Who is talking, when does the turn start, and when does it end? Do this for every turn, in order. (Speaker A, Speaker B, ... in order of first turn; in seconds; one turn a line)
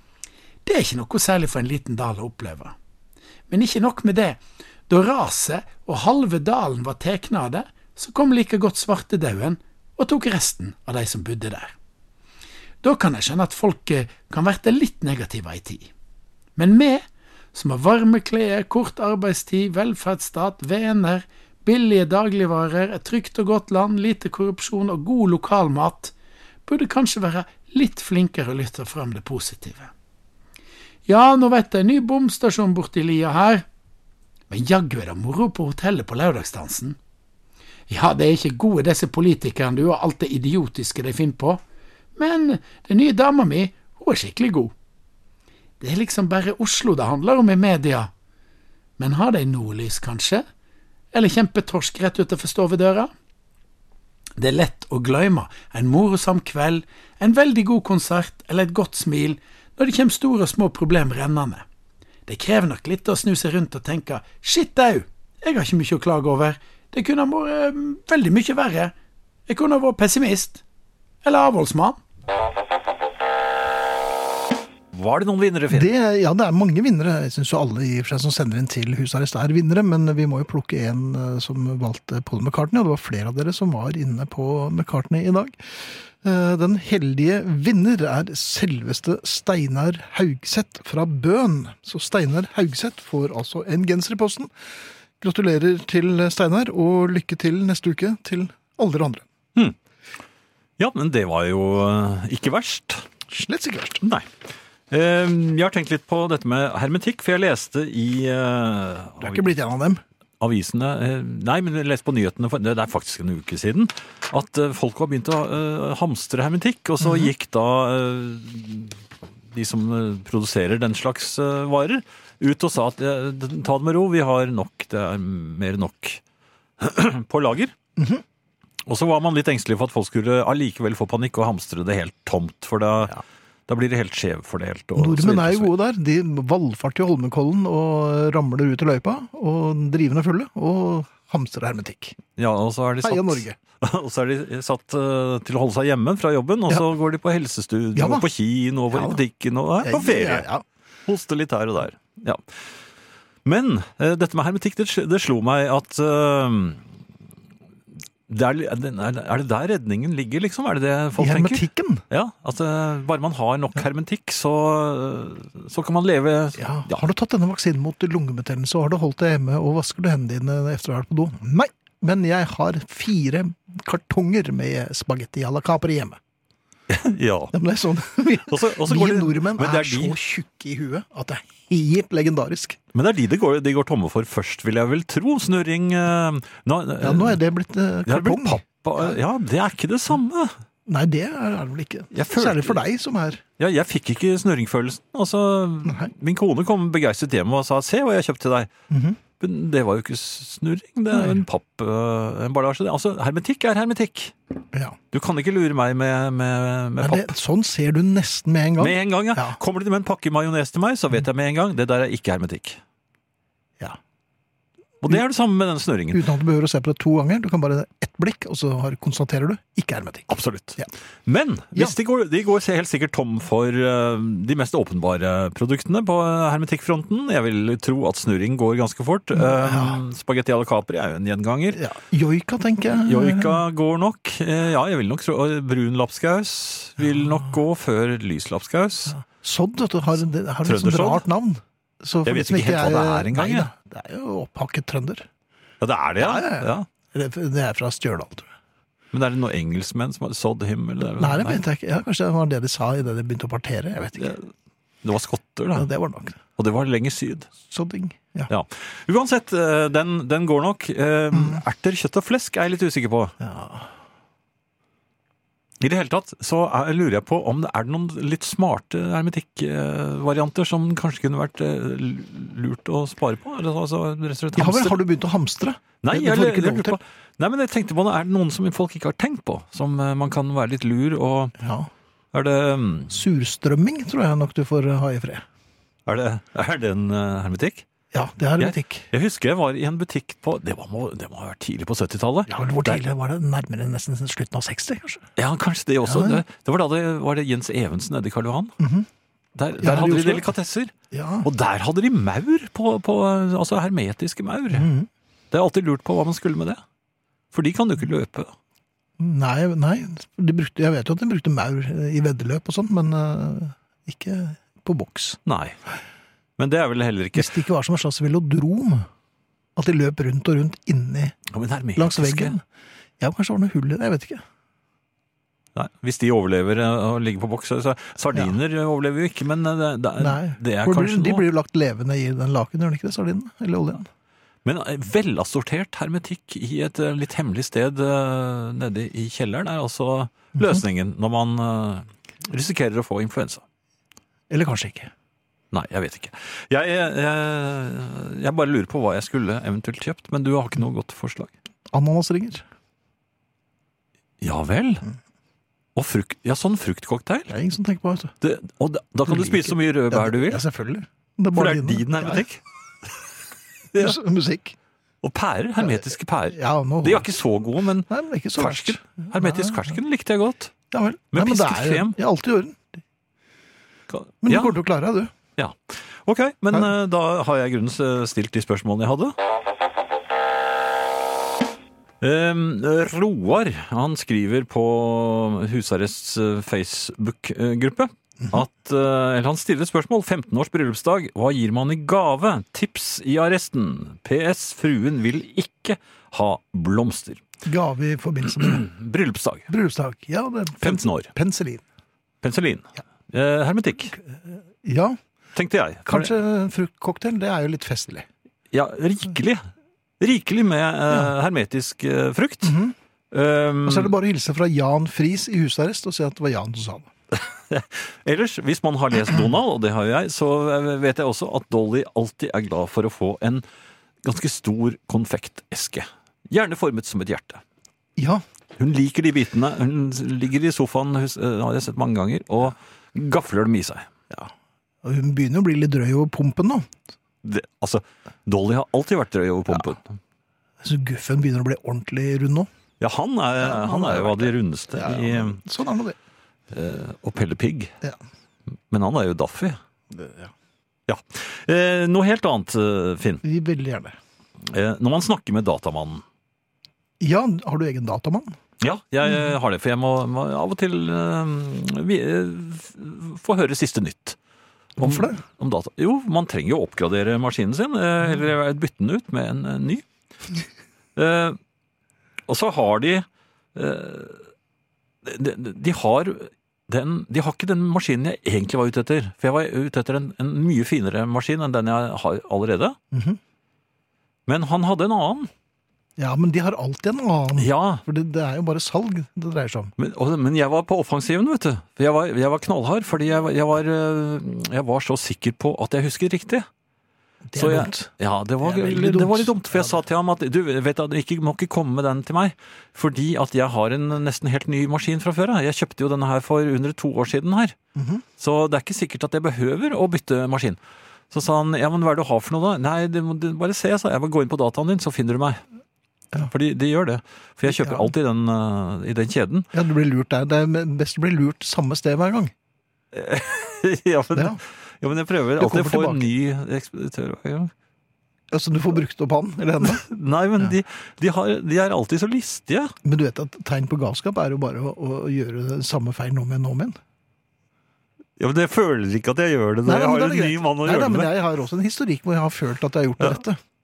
Speaker A: 0.6-2.7
Speaker A: 3.5-11.7
Speaker A: 12.8-15.9
Speaker A: 16.6-26.1
Speaker A: 26.6-29.9
Speaker A: 31.1-33.6
Speaker A: 34.5-37.0
Speaker A: 37.9-41.6
Speaker A: 42.1-44.7
Speaker A: 45.8-48.1
Speaker A: 49.0-50.4
Speaker A: 51.1-53.1
Speaker A: 54.4-61.6
Speaker A: 62.3-68.9
Speaker A: 69.5-70.6
Speaker A: 71.2-72.0
Speaker B: 74.9-75.9
Speaker C: 75.7-94.5
Speaker C: 95.2-99.2
Speaker B: 100.8-103.0
Speaker C: 103.3-104.0
Speaker B: 104.0-104.3
Speaker B: 104.9-109.5
Speaker C: 109.2-110.0
Speaker B: 110.4-119.0
Speaker C: 117.0-117.3
Speaker B: 119.5-126.2
Speaker B: 126.8-127.7
Speaker C: 128.0-128.2
Speaker B: 128.8-133.2
Speaker B: 133.7-135.7
Speaker C: 134.9-142.2
Speaker B: 142.4-150.5
Speaker C: 143.0-143.6
Speaker C: 147.9-148.3
Speaker C: 148.9-149.2
Speaker C: 149.8-150.6
Speaker B: 151.1-152.7
Speaker B: 153.4-156.8
Speaker B: 158.3-167.0
Speaker C: 161.2-162.0
Speaker C: 166.6-176.2
Speaker B: 176.9-177.5
Speaker C: 177.5-182.8
Speaker B: 178.5-180.2
Speaker B: 182.9-187.4
Speaker C: 187.0-189.2
Speaker B: 188.1-190.5
Speaker C: 190.9-193.4
Speaker B: 192.1-192.8
Speaker B: 193.6-198.7
Speaker C: 195.8-196.1
Speaker C: 198.9-199.2
Speaker B: 199.4-204.3
Speaker C: 201.1-201.4
Speaker B: 205.1-207.3
Speaker C: 207.0-209.6
Speaker B: 208.8-212.8
Speaker B: 215.0-216.2
Speaker C: 216.1-220.9
Speaker B: 220.3-231.8
Speaker C: 229.3-230.0
Speaker C: 231.7-233.6
Speaker B: 232.9-239.2
Speaker C: 239.1-245.2
Speaker B: 240.6-241.2
Speaker B: 242.2-243.7
Speaker B: 245.8-246.9
Speaker C: 246.2-248.5
Speaker B: 249.1-251.6
Speaker C: 251.2-254.3
Speaker B: 254.2-254.5
Speaker B: 255.0-255.9
Speaker C: 255.7-256.4
Speaker B: 256.6-257.5
Speaker C: 257.6-258.5
Speaker B: 258.5-263.3
Speaker C: 261.3-261.6
Speaker C: 263.4-263.9
Speaker B: 265.8-275.0
Speaker C: 274.5-277.0
Speaker B: 276.0-281.5
Speaker C: 281.6-281.9
Speaker B: 282.3-283.1
Speaker C: 283.1-285.4
Speaker B: 286.1-287.8
Speaker C: 288.1-289.1
Speaker B: 288.6-293.0
Speaker C: 292.5-295.2
Speaker B: 295.4-298.8
Speaker C: 296.1-296.4
Speaker C: 298.8-299.1
Speaker B: 299.5-300.9
Speaker C: 299.8-300.5
Speaker C: 301.1-301.5
Speaker B: 301.4-304.9
Speaker C: 304.7-305.1
Speaker B: 305.5-306.8
Speaker B: 307.5-308.5
Speaker C: 309.2-315.4
Speaker B: 315.4-315.8
Speaker B: 316.6-317.5
Speaker C: 317.3-319.1
Speaker C: 319.8-321.4
Speaker B: 321.5-322.6
Speaker C: 321.9-322.6
Speaker C: 323.2-324.4
Speaker B: 325.7-331.4
Speaker C: 330.2-334.1
Speaker B: 334.6-343.6
Speaker C: 344.5-345.1
Speaker B: 345.7-351.5
Speaker C: 351.9-352.6
Speaker B: 354.4-355.0
Speaker B: 355.9-357.5
Speaker C: 357.5-358.3
Speaker B: 358.4-360.6
Speaker C: 359.3-362.4
Speaker B: 361.5-363.1
Speaker C: 363.9-364.8
Speaker B: 365.2-370.7
Speaker C: 365.8-367.3
Speaker C: 368.1-369.9
Speaker C: 370.9-372.9
Speaker B: 371.3-372.1
Speaker B: 374.1-374.8
Speaker C: 374.4-375.3
Speaker B: 375.6-379.3
Speaker B: 382.2-397.4
Speaker C: 397.6-398.9
Speaker B: 398.6-399.7
Speaker C: 399.7-401.8
Speaker B: 400.8-401.3
Speaker B: 402.4-404.1
Speaker C: 404.1-405.2
Speaker B: 405.5-406.3
Speaker C: 406.1-408.3
Speaker B: 408.7-409.6
Speaker B: 410.2-412.7
Speaker C: 412.6-412.9
Speaker B: 413.3-414.1
Speaker C: 413.8-417.1
Speaker B: 417.3-423.6
Speaker B: 424.2-427.6
Speaker C: 428.2-428.4
Speaker B: 428.8-434.1
Speaker C: 435.0-436.9
Speaker B: 437.4-440.2
Speaker C: 440.8-442.7
Speaker B: 443.0-445.6
Speaker C: 443.6-446.2
Speaker B: 446.7-447.9
Speaker B: 448.9-449.8
Speaker C: 450.1-450.5
Speaker B: 451.1-453.4
Speaker C: 453.4-454.1
Speaker B: 454.6-456.2
Speaker C: 457.2-458.6
Speaker B: 458.8-464.4
Speaker C: 465.0-465.4
Speaker B: 465.0-470.0
Speaker B: 471.1-471.6
Speaker B: 472.5-474.4
Speaker B: 475.2-483.0
Speaker C: 483.1-483.4
Speaker B: 484.5-485.5
Speaker C: 486.2-489.9
Speaker B: 487.6-488.0
Speaker B: 490.0-496.7
Speaker C: 497.5-498.1
Speaker B: 497.6-507.8
Speaker C: 498.6-500.0
Speaker C: 507.9-508.2
Speaker B: 508.4-510.8
Speaker B: 511.3-515.6
Speaker B: 516.5-519.7
Speaker C: 517.7-518.1
Speaker C: 519.7-522.5
Speaker B: 523.1-527.7
Speaker C: 524.3-524.6
Speaker C: 525.6-526.3
Speaker C: 528.5-530.0
Speaker B: 529.8-532.9
Speaker C: 533.0-537.0
Speaker B: 538.4-541.3
Speaker C: 539.8-543.6